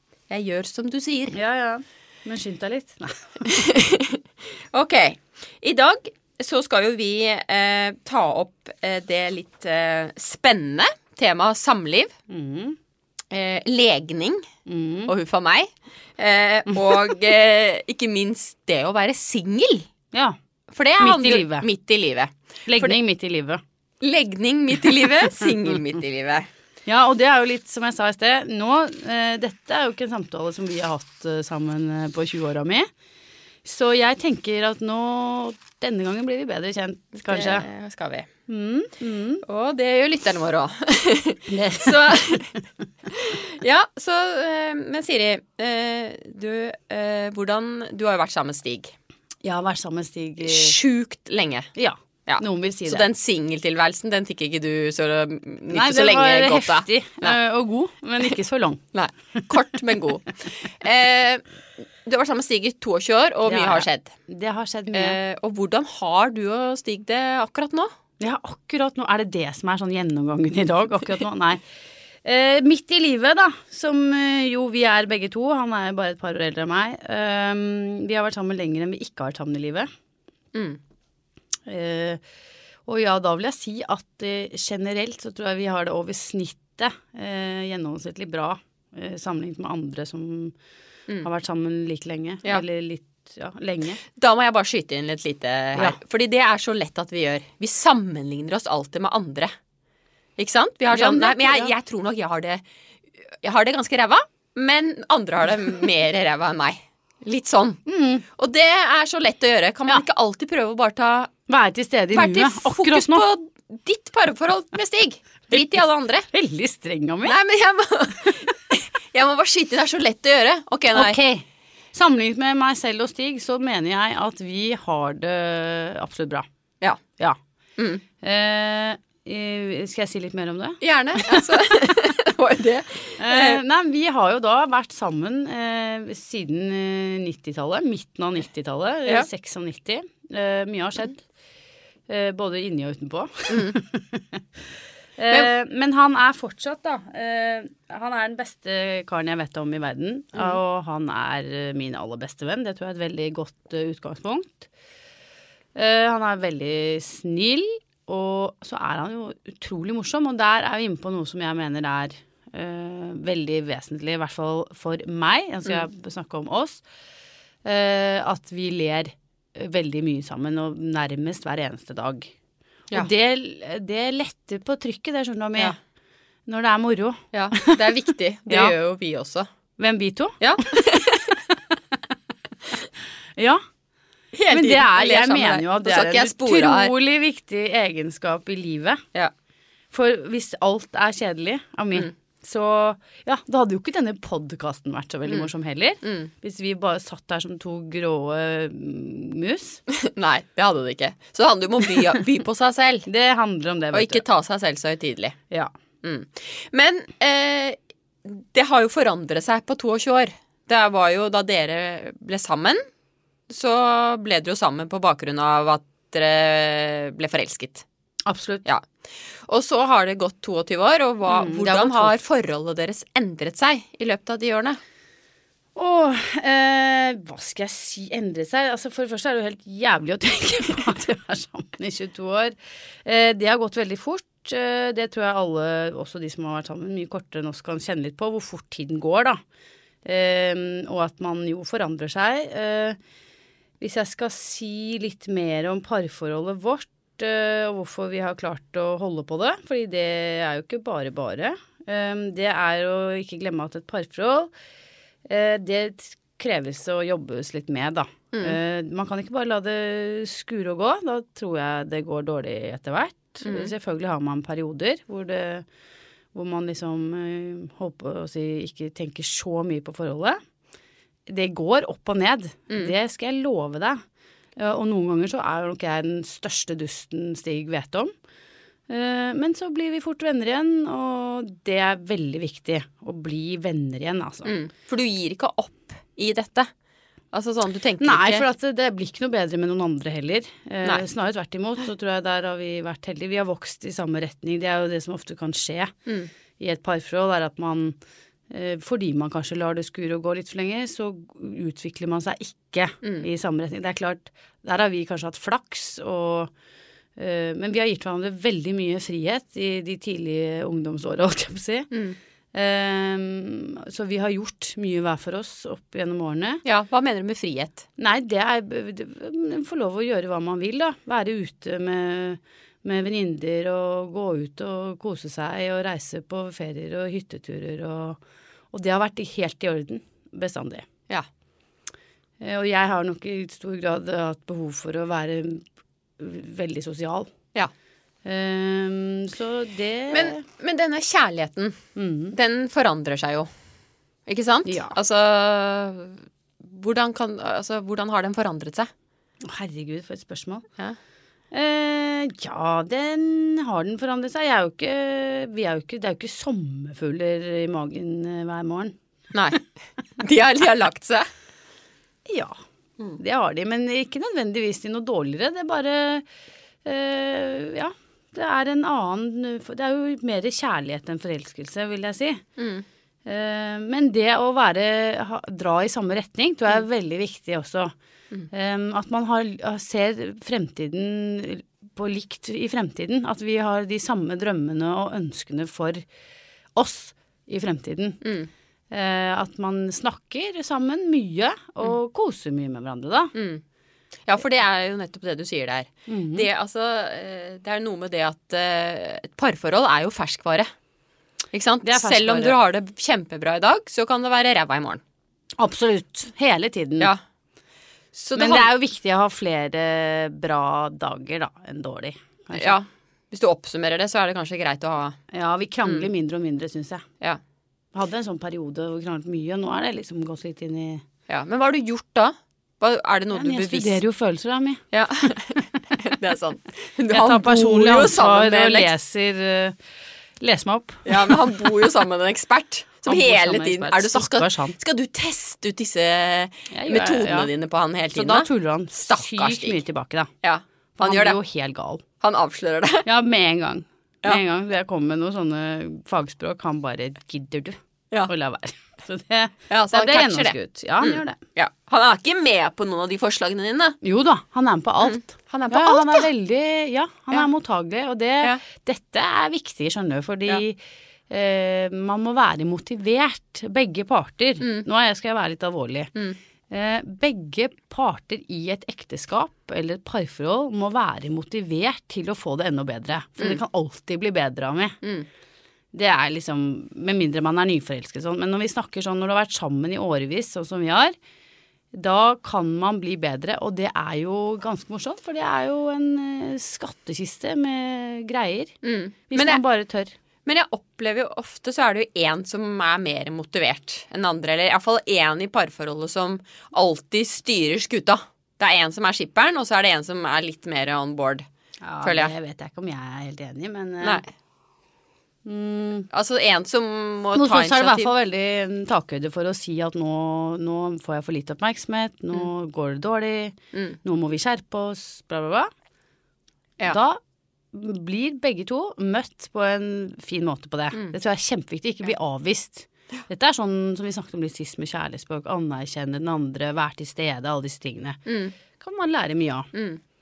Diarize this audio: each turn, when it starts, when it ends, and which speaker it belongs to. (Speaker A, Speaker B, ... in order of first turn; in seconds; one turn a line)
Speaker A: 0.3-1.4
Speaker B: 1.3-3.7
Speaker A: 3.5-12.1
Speaker B: 12.3-12.8
Speaker A: 13.3-14.4
Speaker B: 14.7-15.1
Speaker A: 15.1-19.9
Speaker A: 20.7-23.0
Speaker B: 21.0-21.7
Speaker B: 22.7-23.6
Speaker A: 24.0-26.5
Speaker B: 26.9-32.9
Speaker B: 33.6-37.6
Speaker A: 37.2-38.3
Speaker B: 38.5-39.4
Speaker A: 39.4-42.5
Speaker B: 41.5-42.5
Speaker A: 43.1-48.9
Speaker B: 49.4-50.8
Speaker A: 50.4-51.7
Speaker B: 51.8-53.1
Speaker A: 52.3-57.4
Speaker B: 55.7-58.8
Speaker A: 58.9-61.4
Speaker A: 62.0-64.1
Speaker B: 63.5-65.2
Speaker A: 64.9-67.9
Speaker B: 68.2-71.6
Speaker B: 72.2-79.9
Speaker A: 80.5-80.8
Speaker B: 81.7-82.2
Speaker B: 82.8-90.5
Speaker B: 91.2-94.0
Speaker A: 94.1-99.5
Speaker A: 100.4-102.6
Speaker B: 100.9-101.7
Speaker A: 103.2-111.3
Speaker B: 107.8-108.2
Speaker B: 111.5-113.2
Speaker A: 112.1-116.3
Speaker B: 116.3-117.3
Speaker A: 117.2-121.2
Speaker B: 120.9-126.4
Speaker A: 127.8-128.0
Speaker B: 128.2-131.9
Speaker A: 130.8-133.6
Speaker B: 133.2-141.2
Speaker B: 142.1-144.4
Speaker A: 143.5-143.8
Speaker B: 145.2-154.7
Speaker B: 155.7-166.8
Speaker B: 167.6-172.3
Speaker B: 172.9-175.8
Speaker B: 176.5-178.7
Speaker A: 177.3-179.5
Speaker B: 179.8-181.8
Speaker A: 180.4-181.4
Speaker B: 183.4-183.6
Speaker A: 184.3-186.9
Speaker B: 184.5-189.0
Speaker B: 189.9-199.8
Speaker A: 196.0-196.3
Speaker A: 199.9-203.1
Speaker B: 203.1-204.2
Speaker A: 203.9-205.4
Speaker A: 206.0-212.8
Speaker A: 213.5-217.8
Speaker B: 218.2-218.7
Speaker A: 218.6-224.8
Speaker B: 221.2-222.1
Speaker B: 225.8-239.4
Speaker B: 240.0-243.0
Speaker B: 243.8-254.5
Speaker B: 255.2-265.6
Speaker A: 263.4-263.7
Speaker B: 266.3-270.4
Speaker B: 271.3-274.0
Speaker B: 274.6-278.1
Speaker B: 278.9-284.5
Speaker A: 284.4-286.7
Speaker A: 287.3-288.4
Speaker B: 288.0-295.9
Speaker B: 296.6-297.9
Speaker B: 298.5-306.5
Speaker B: 307.2-311.9
Speaker A: 311.9-312.2
Speaker B: 312.5-316.6
Speaker A: 316.6-317.8
Speaker B: 318.0-328.2
Speaker B: 328.7-330.9
Speaker B: 332.4-335.6
Speaker B: 336.2-337.3
Speaker B: 338.2-340.4
Speaker A: 340.1-341.8
Speaker B: 341.9-342.4
Speaker A: 342.3-343.5
Speaker A: 344.3-348.9
Speaker B: 344.6-344.9
Speaker B: 349.4-350.7
Speaker B: 351.5-358.9
Speaker A: 359.3-359.6
Speaker A: 360.2-361.2
Speaker B: 362.3-362.6
Speaker B: 363.2-366.2
Speaker B: 366.8-372.4
Speaker A: 372.6-372.8
Speaker B: 373.2-377.9
Speaker B: 378.5-386.0
Speaker B: 386.8-388.2
Speaker A: 388.2-388.5
Speaker B: 388.9-393.3
Speaker A: 393.3-393.6
Speaker A: 394.2-400.7
Speaker B: 396.1-396.5
Speaker A: 401.5-405.0
Speaker B: 401.8-402.6
Speaker B: 405.6-407.1
Speaker A: 408.1-408.7
Speaker B: 408.4-412.8
Speaker A: 412.5-415.2
Speaker B: 415.3-417.0
Speaker B: 417.9-421.0
Speaker A: 421.3-424.0
Speaker B: 423.3-424.8
Speaker A: 424.9-428.9
Speaker B: 427.1-429.8
Speaker B: 430.4-431.7
Speaker A: 431.1-439.8
Speaker B: 433.1-434.8
Speaker B: 436.7-437.5
Speaker B: 438.1-440.3
Speaker A: 440.4-441.4
Speaker B: 441.0-442.0
Speaker A: 442.2-443.1
Speaker B: 443.0-451.4
Speaker A: 449.7-454.0
Speaker B: 454.0-460.8
Speaker A: 455.0-456.3
Speaker B: 461.3-466.1
Speaker A: 464.6-464.9
Speaker B: 466.7-475.0
Speaker A: 475.0-475.3
Speaker B: 475.9-481.1
Speaker B: 481.9-488.7
Speaker A: 488.8-489.6
Speaker B: 489.3-490.1
Speaker A: 490.4-501.4
Speaker B: 501.8-504.2
Speaker A: 502.0-502.3
Speaker B: 505.4-506.1
Speaker A: 506.1-508.1
Speaker B: 507.3-515.7
Speaker B: 516.9-517.2
Speaker B: 517.7-528.2
Speaker A: 528.2-528.5
Speaker B: 528.8-529.7
Speaker A: 529.7-530.0